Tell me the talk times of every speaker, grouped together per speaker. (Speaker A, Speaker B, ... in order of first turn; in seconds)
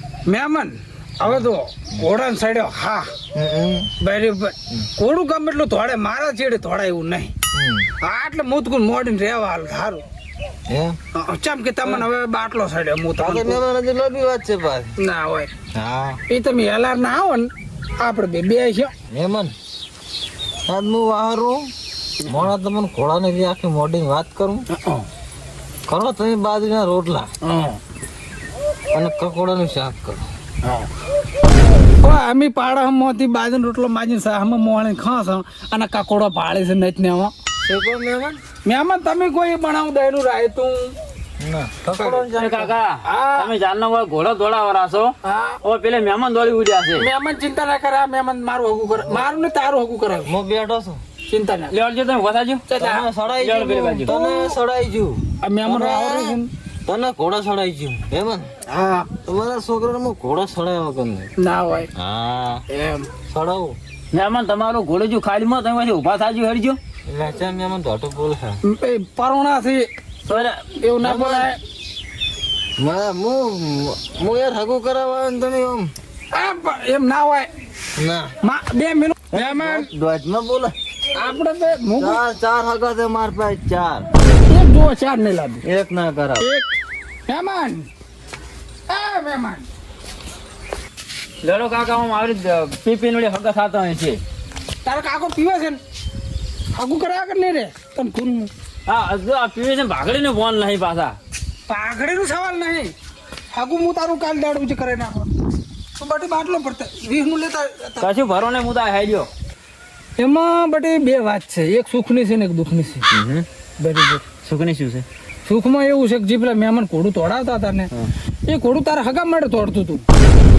Speaker A: 0.3-3.1, 4.0-7.3, 8.0-10.0, 11.1-13.6, 15.0-15.5, 16.3-18.9, 24.7-25.1, 27.4-27.8, 30.6-30.9, 32.0-37.3, 38.6-40.9, 43.0-43.5, 45.2-45.6, 47.0-50.3, 51.3-51.8, 52.7-53.0, 55.4-56.5, 58.7-59.1, 61.4-61.9, 62.7-63.1, 68.6-71.6, 76.3-77.5, 78.4-79.9, 81.1-82.2, 84.5-85.6, 86.4-86.7, 87.3-87.9, 88.9-89.7, 94.8-95.8, 96.7-98.5, 101.7-102.9, 103.5-105.3, 106.0-108.1, 110.2-113.1, 113.8-114.2, 115.4-117.9, 118.5-120.0
Speaker B: 1.2-1.5, 3.3-3.9, 7.5-7.9, 10.7-11.0, 13.2-14.9, 15.7-16.2, 19.1-19.5, 20.7-21.7, 22.2-24.6, 25.9-27.3, 28.9-30.2, 37.6-38.4, 41.4-42.7, 49.0-49.2, 50.2-51.0, 52.8-58.5, 59.2-61.3, 61.9-62.6, 63.3-63.8, 67.1-68.6, 71.0-71.5, 72.8-75.9, 78.0-78.3, 79.3-80.7, 82.0-84.1, 85.6-86.5
Speaker C: 42.0-47.1, 51.7-52.7, 53.4-54.3, 64.1-66.8, 70.3-70.6, 91.4-94.2, 98.9-101.2, 108.0-109.3, 113.1-113.5, 114.4-115.0